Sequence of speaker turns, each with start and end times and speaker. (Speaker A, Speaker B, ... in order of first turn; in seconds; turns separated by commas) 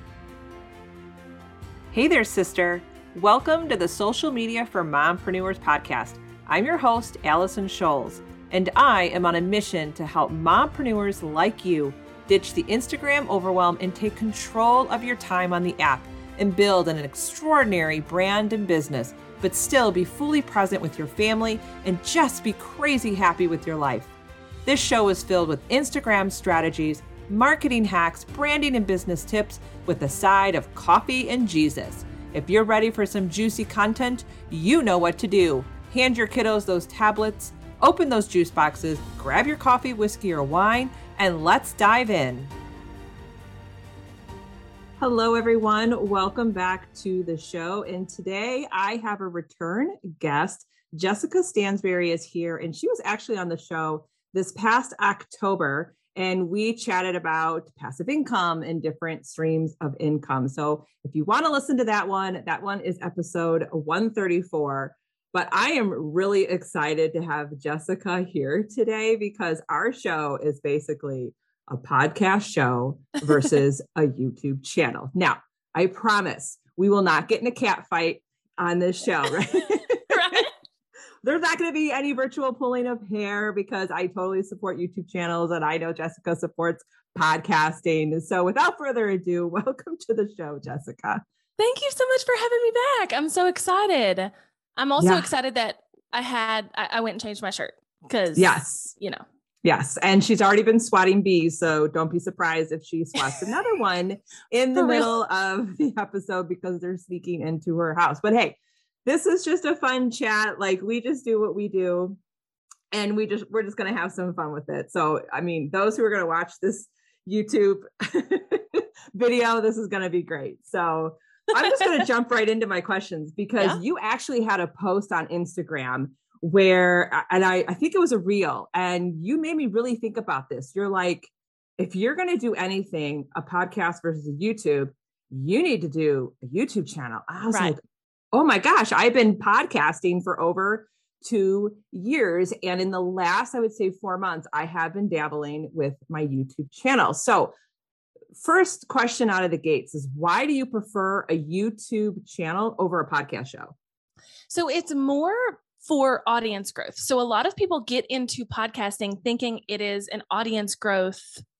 Speaker A: 1.9-24.1, Speaker A: 24.6-42.5, Speaker A: 45.0-80.5, Speaker B: 80.1-80.5, Speaker A: 81.2-91.2, Speaker B: 91.6-99.2, Speaker A: 95.0-95.3, Speaker A: 98.4-98.9, Speaker A: 99.6-112.2, Speaker B: 104.8-105.1, Speaker A: 112.9-137.8, Speaker B: 137.5-137.7, Speaker A: 138.3-147.5, Speaker A: 148.4-153.8, Speaker B: 154.5-161.4